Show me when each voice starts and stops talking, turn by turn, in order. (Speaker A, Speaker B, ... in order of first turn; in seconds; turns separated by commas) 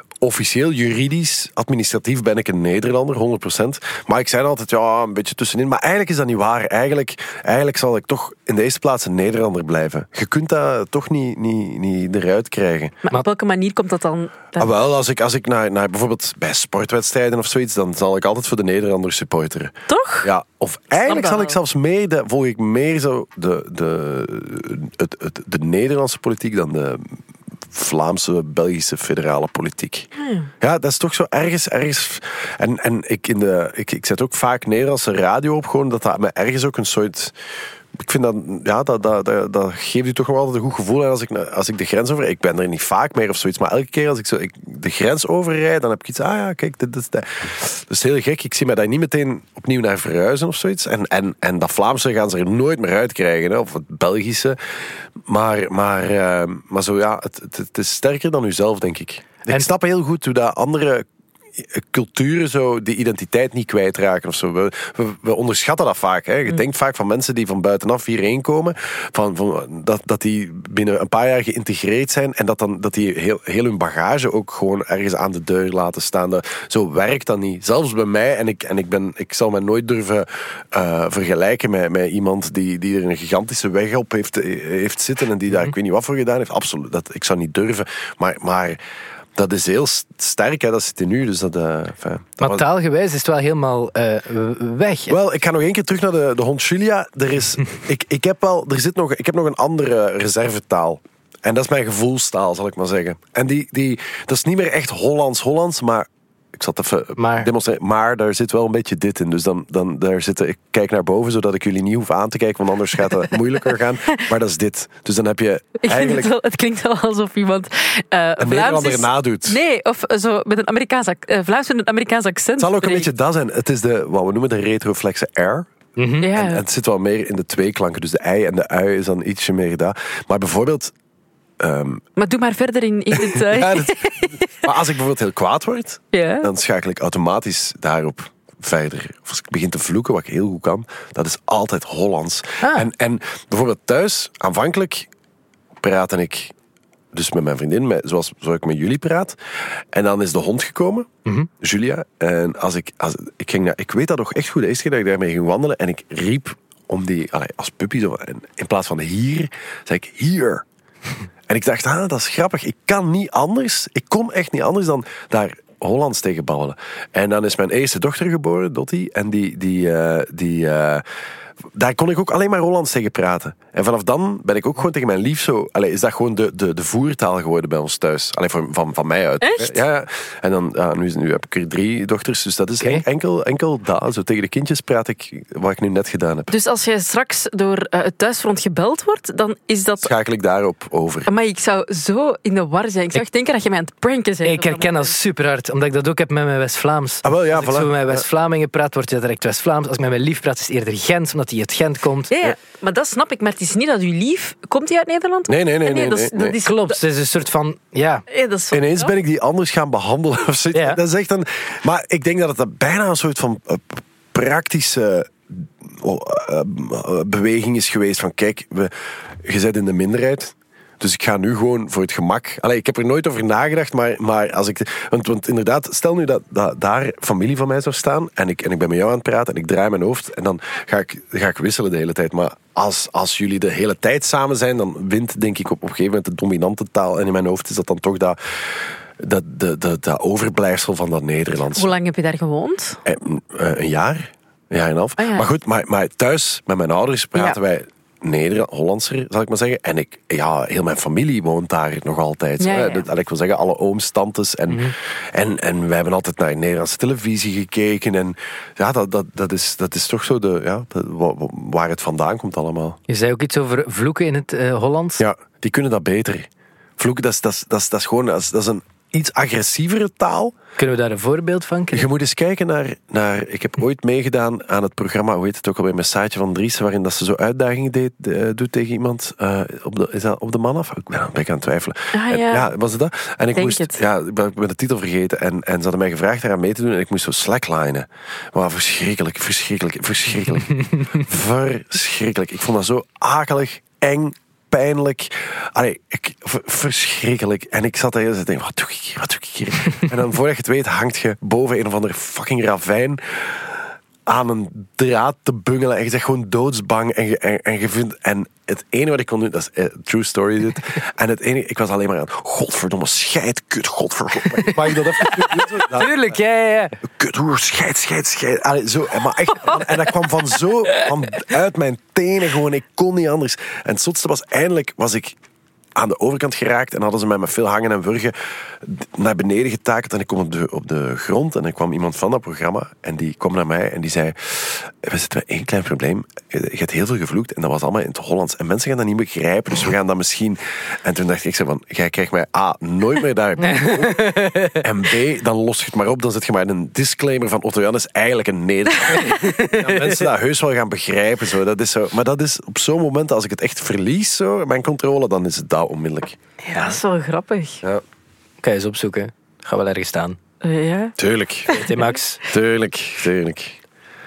Speaker A: 0.2-13.0, Speaker B: 13.1-14.7, Speaker A: 14.6-27.2, Speaker B: 19.9-20.3, Speaker B: 21.0-21.6, Speaker A: 27.7-30.1, Speaker B: 30.2-30.5, Speaker A: 30.6-37.4, Speaker A: 38.0-54.6, Speaker A: 55.3-61.0, Speaker A: 61.6-88.8, Speaker A: 89.4-92.7, Speaker C: 92.4-95.2, Speaker A: 95.1-116.3, Speaker C: 107.2-107.5, Speaker B: 115.8-123.1, Speaker A: 118.4-119.6, Speaker A: 122.6-125.7, Speaker C: 126.0-126.3, Speaker B: 126.2-126.6, Speaker A: 126.2-130.9, Speaker A: 131.6-132.0, Speaker B: 132.2-134.7, Speaker A: 133.1-145.1, Speaker B: 136.1-136.5, Speaker C: 142.6-142.9, Speaker A: 145.8-146.5, Speaker A: 147.1-149.4, Speaker A: 149.9-151.1, Speaker A: 151.6-160.7, Speaker A: 161.5-171.0, Speaker A: 171.7-186.5, Speaker B: 179.4-179.8, Speaker B: 186.5-190.1, Speaker A: 190.0-191.3, Speaker B: 191.3-195.2, Speaker C: 194.4-202.3, Speaker A: 197.2-198.2, Speaker B: 202.3-207.0, Speaker A: 205.5-206.6, Speaker C: 206.6-208.2, Speaker B: 208.3-209.1, Speaker A: 208.7-218.9, Speaker C: 210.7-211.0, Speaker A: 219.4-241.9, Speaker B: 241.7-243.0, Speaker A: 243.1-263.0, Speaker B: 245.2-245.5, Speaker B: 252.6-253.1, Speaker C: 254.7-254.9, Speaker C: 263.1-265.2, Speaker A: 265.2-270.6, Speaker C: 270.8-272.1, Speaker A: 271.9-316.3, Speaker B: 282.1-282.7, Speaker B: 283.6-284.0, Speaker C: 290.7-291.2, Speaker C: 314.6-317.0, Speaker A: 317.0-325.4, Speaker A: 326.0-356.4, Speaker C: 343.6-344.8, Speaker C: 349.2-350.3, Speaker C: 356.7-357.0, Speaker B: 356.8-357.8, Speaker C: 358.6-360.4, Speaker B: 360.6-362.2, Speaker A: 361.2-361.8, Speaker C: 361.7-362.4, Speaker A: 362.4-363.8